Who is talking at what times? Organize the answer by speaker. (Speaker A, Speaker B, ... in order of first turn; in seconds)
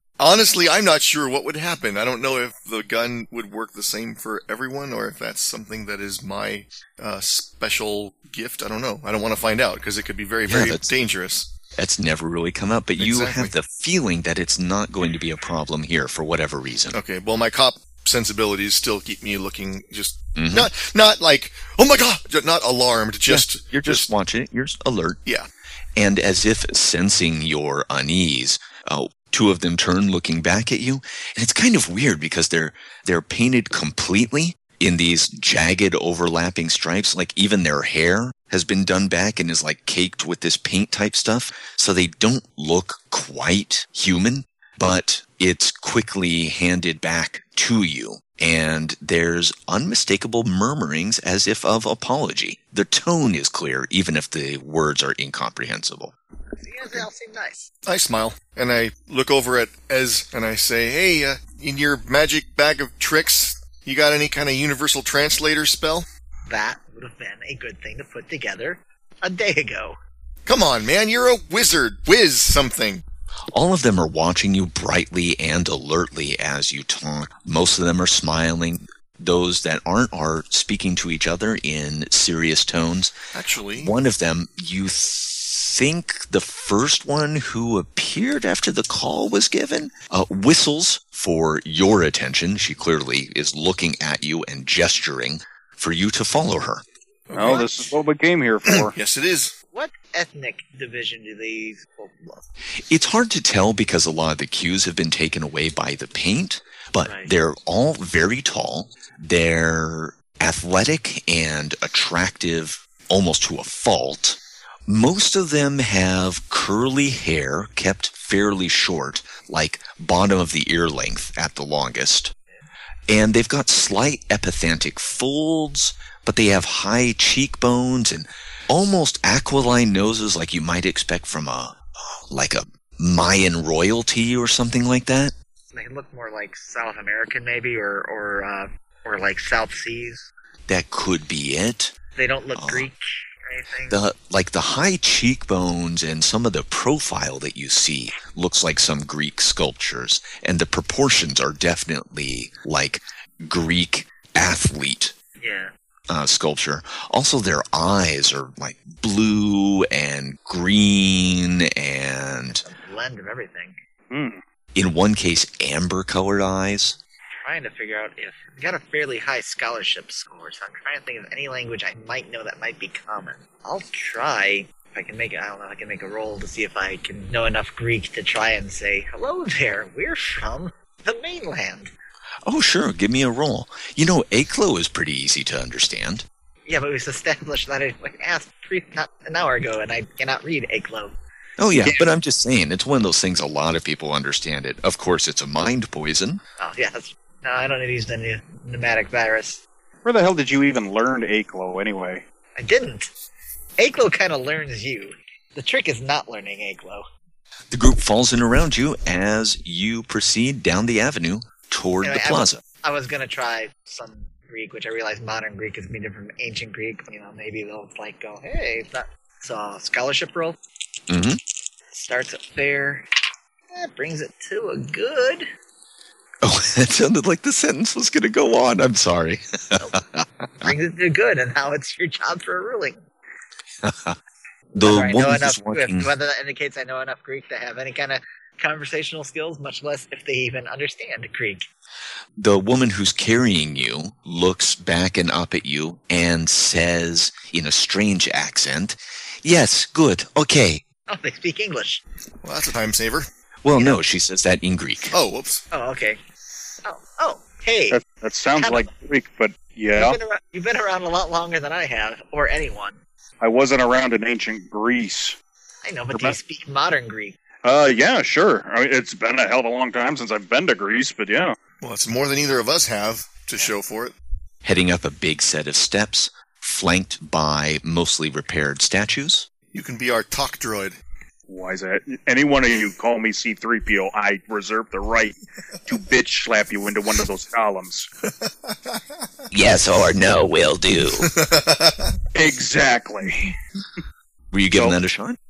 Speaker A: 0.2-11.5, 13.0-13.5, 16.9-24.1, 57.9-66.1, 70.5-73.0, 83.3-83.9, 97.3-97.7, 98.6-99.5, 252.4-253.3, 255.1-255.6, 271.8-274.1, 279.7-281.0, 288.2-289.4, 291.1-292.2
Speaker B: 10.5-10.9, 11.7-17.0, 20.4-20.7, 23.3-25.2, 25.9-56.1, 73.5-83.1, 83.8-96.8, 102.9-122.3, 123.1-131.8, 132.3-135.3, 140.7-141.9, 142.6-142.9, 143.9-155.1, 156.1-162.6, 164.7-167.0, 182.4-186.2, 191.6-196.4, 207.7-212.6, 221.1-221.4, 226.4-230.7, 233.8-234.2, 234.7-236.1, 242.4-250.8, 253.6-255.2, 274.6-279.5, 289.5-291.3, 294.5-295.4
Speaker C: 56.6-57.7, 66.5-70.0, 99.7-102.4, 107.0-107.3, 135.7-140.2, 142.1-144.0, 155.4-155.7, 162.6-163.8, 167.4-181.9, 186.7-191.1, 196.6-199.6, 202.6-203.1, 203.8-207.0, 212.0-220.6, 221.9-223.0, 223.7-225.5, 230.6-233.0, 234.8-241.7, 251.1-252.0, 255.7-256.2, 256.8-258.0, 258.6-258.9, 259.9-263.0, 265.8-267.4
Speaker D: 97.3-98.9, 164.1-164.4, 200.0-202.2, 257.9-260.2, 263.4-265.4, 267.6-271.6, 281.5-288.1, 292.3-293.6